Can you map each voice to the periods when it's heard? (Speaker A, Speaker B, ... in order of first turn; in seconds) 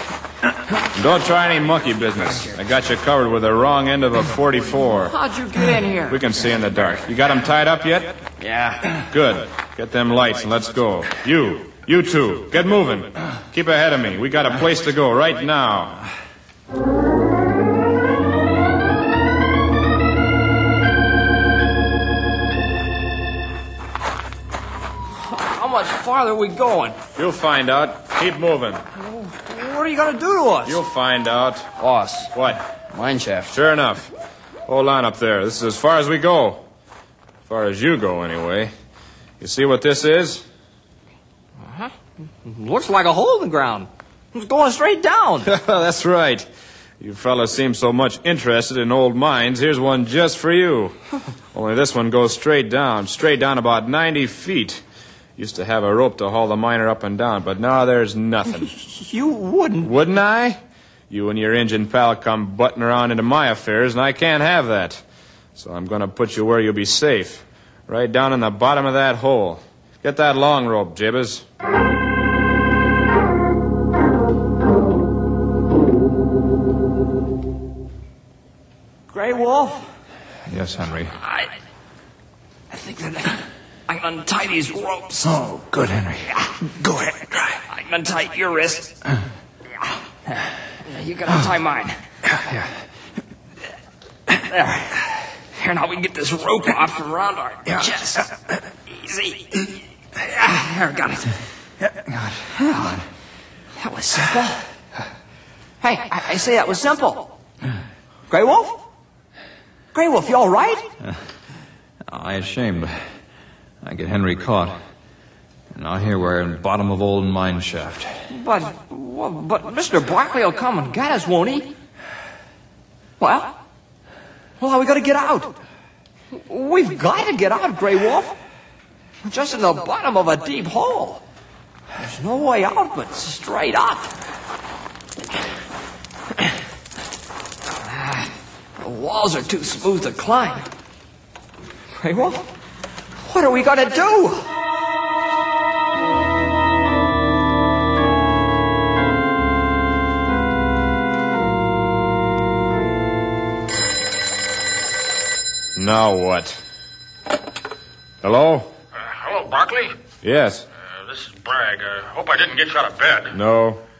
Speaker A: 0.8-5.2, 6.1-8.2, 9.1-16.0, 27.1-28.8, 30.6-31.7, 32.3-32.6, 33.5-34.1, 34.7-36.6, 37.5-38.7, 39.4-40.4, 45.4-46.5, 47.0-51.0, 51.5-54.8, 55.4-58.8, 59.8-65.0, 65.5-71.4, 155.8-156.6, 158.2-158.7, 160.2-160.7, 163.3-163.8
Speaker B: 5.0-6.2, 25.2-27.0, 29.0-30.8, 42.5-45.5, 58.9-59.9, 79.1-79.8, 81.2-81.5, 82.7-85.4, 87.6-89.0, 90.8-92.0, 94.5-101.3, 103.8-104.6, 105.8-107.4, 108.3-108.8, 109.9-110.9, 118.3-121.7, 123.2-123.6, 124.6-125.6, 126.3-128.4, 129.2-131.2, 132.0-134.1, 137.7-140.7, 141.9-142.5, 143.2-144.5
Speaker C: 8.4-9.0, 31.8-32.3, 32.9-33.5, 43.2-43.5
Speaker D: 80.5-81.2, 85.2-87.6, 92.3-92.7, 101.8-103.0, 112.1-113.0, 113.8-114.8, 115.7-118.1
Speaker E: 158.9-159.9, 160.9-163.3